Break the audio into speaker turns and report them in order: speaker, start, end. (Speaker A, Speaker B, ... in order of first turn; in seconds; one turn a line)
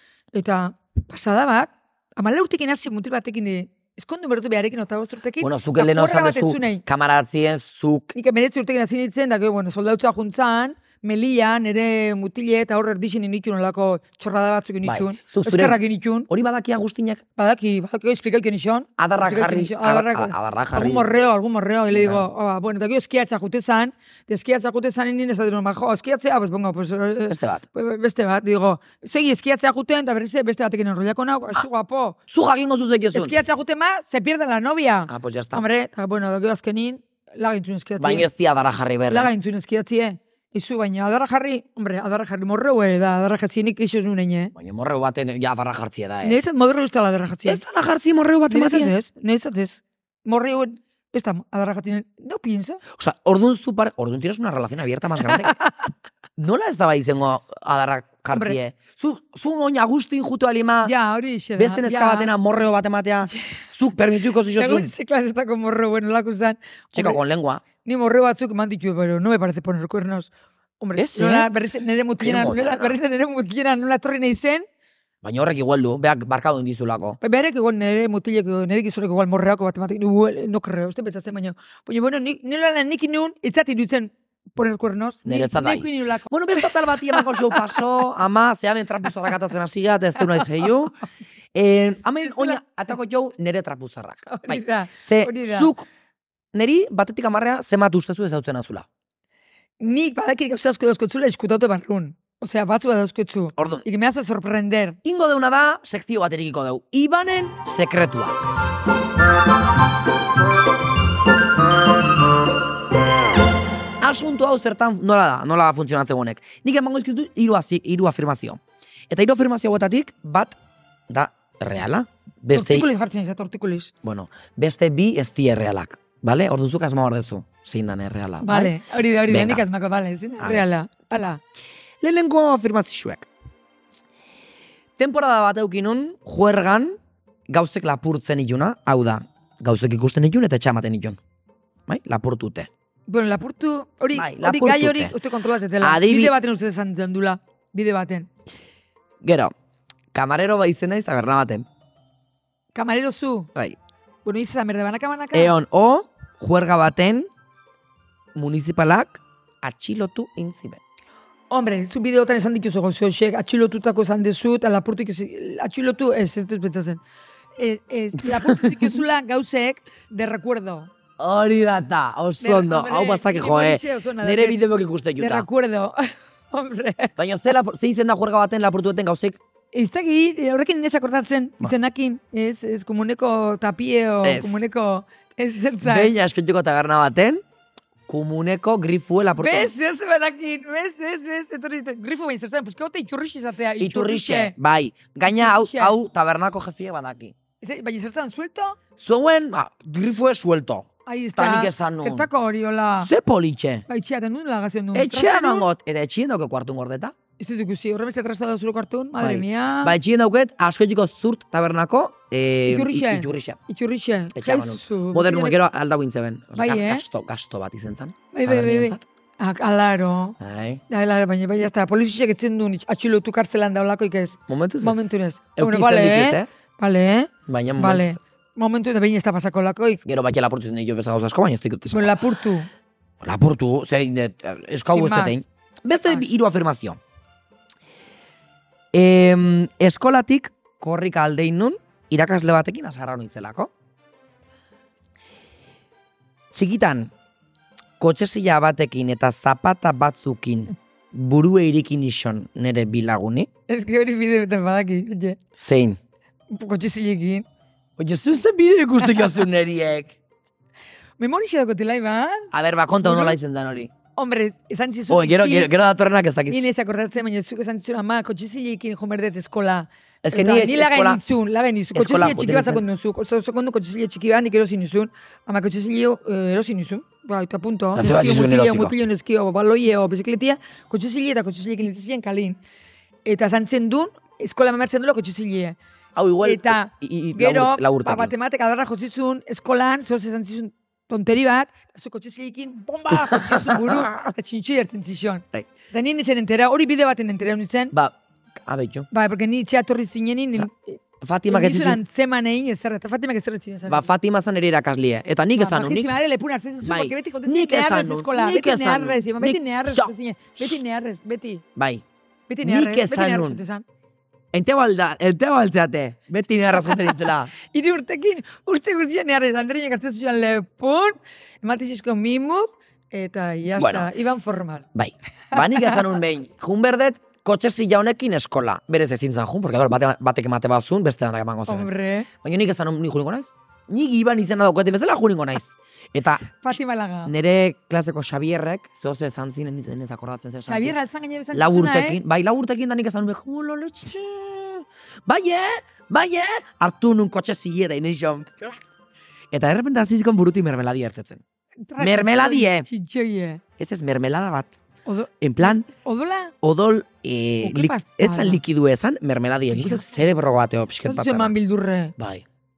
Speaker A: 0.3-6.8
Speaker B: 5.4-8.1
Speaker A: 8.1-16.3
Speaker B: 14.8-17.2
Speaker A: 17.4-32.2
Speaker B: 19.0-21.1
Speaker B: 21.9-22.3
Speaker B: 27.3-27.6
Speaker B: 32.3-33.4
Speaker A: 33.1-38.3
Speaker B: 35.1-35.6
Speaker B: 38.0-39.3
Speaker A: 39.1-44.5
Speaker B: 44.5-46.4
Speaker A: 46.2-47.6
Speaker B: 47.5-48.9
Speaker A: 48.5-52.8
Speaker B: 52.9-55.5
Speaker A: 55.2-55.8
Speaker B: 56.4-60.9
Speaker A: 58.3-58.6
Speaker A: 60.8-62.3
Speaker B: 61.5-64.9
Speaker A: 64.5-67.2
Speaker B: 66.9-67.6
Speaker A: 67.8-74.7
Speaker B: 71.0-71.5
Speaker B: 72.2-73.0
Speaker B: 75.2-77.2
Speaker A: 77.2-87.8
Speaker B: 85.2-91.0
Speaker A: 90.2-90.5
Speaker B: 91.5-95.9
Speaker A: 92.2-92.6
Speaker A: 94.3-95.7
Speaker B: 96.5-98.9
Speaker A: 99.8-105.0
Speaker B: 103.6-103.8
Speaker B: 105.0-108.5
Speaker B: 114.0-120.5
Speaker B: 121.1-122.9
Speaker A: 122.5-123.9
Speaker B: 124.0-128.7
Speaker A: 128.4-131.4
Speaker B: 129.3-129.6
Speaker B: 130.4-130.6
Speaker B: 132.0-133.3
Speaker B: 135.0-137.0
Speaker B: 137.5-141.2
Speaker B: 141.9-142.7
Speaker A: 143.1-148.3
Speaker B: 144.1-145.1
Speaker B: 145.8-146.3
Speaker B: 149.2-149.5
Speaker B: 150.1-151.7
Speaker A: 152.7-153.5
Speaker A: 154.2-155.5
Speaker B: 155.3-157.3
Speaker B: 158.3-160.8
Speaker A: 161.5-167.0
Speaker A: 167.6-170.9
Speaker B: 168.2-168.9
Speaker B: 171.2-175.5
Speaker A: 172.4-177.1
Speaker B: 177.2-179.4
Speaker A: 179.7-186.1
Speaker B: 184.2-184.5
Speaker B: 185.8-187.4
Speaker B: 188.1-189.7
Speaker A: 189.4-194.5
Speaker B: 193.8-197.3
Speaker A: 195.2-195.9
Speaker A: 197.6-198.8
Speaker B: 199.0-202.3
Speaker A: 201.1-203.1
Speaker B: 203.0-203.8
Speaker A: 203.9-205.7
Speaker B: 204.9-207.1
Speaker A: 207.4-209.9
Speaker B: 209.2-213.6
Speaker A: 212.7-215.6
Speaker B: 214.3-219.0
Speaker A: 216.6-217.0
Speaker A: 218.3-220.4
Speaker B: 220.4-220.8
Speaker A: 220.9-230.0
Speaker B: 224.5-225.0
Speaker B: 225.6-226.5
Speaker B: 227.5-228.2
Speaker B: 230.0-232.1
Speaker A: 231.9-232.7
Speaker B: 233.2-237.0
Speaker A: 234.9-235.4
Speaker A: 235.9-236.3
Speaker B: 238.9-243.7
Speaker B: 246.5-247.1
Speaker B: 248.0-253.5
Speaker A: 253.7-255.4
Speaker B: 255.6-256.0
Speaker A: 256.5-257.4
Speaker B: 258.0-260.1
Speaker A: 261.2-262.5
Speaker B: 262.5-263.9
Speaker A: 263.0-263.4
Speaker A: 264.1-265.7
Speaker B: 265.1-266.6
Speaker A: 266.5-282.6
Speaker B: 270.2-271.2
Speaker B: 271.9-272.8
Speaker B: 277.9-278.9
Speaker A: 283.2-285.8
Speaker B: 286.1-288.3
Speaker A: 286.4-297.9
Speaker B: 293.1-294.1
Speaker B: 297.9-299.1
Speaker A: 299.1-304.1
Speaker B: 301.2-302.0
Speaker B: 303.9-306.1
Speaker A: 305.6-311.6
Speaker B: 306.8-310.8
Speaker B: 311.8-312.0
Speaker A: 312.5-313.8
Speaker B: 312.6-313.6
Speaker B: 314.5-317.5
Speaker A: 317.7-324.9
Speaker B: 323.8-324.1
Speaker B: 324.9-331.9
Speaker A: 325.5-326.0
Speaker A: 331.7-332.3
Speaker B: 332.4-336.6
Speaker A: 336.6-337.3
Speaker B: 337.2-340.9
Speaker A: 340.7-342.2
Speaker B: 341.5-348.8
Speaker B: 349.5-351.4
Speaker A: 351.9-353.6
Speaker B: 352.0-352.9
Speaker B: 353.8-354.8
Speaker A: 355.1-356.5
Speaker B: 355.4-355.9
Speaker B: 356.6-361.5
Speaker A: 357.6-358.6
Speaker A: 359.7-360.1
Speaker A: 361.1-362.1
Speaker B: 362.2-362.4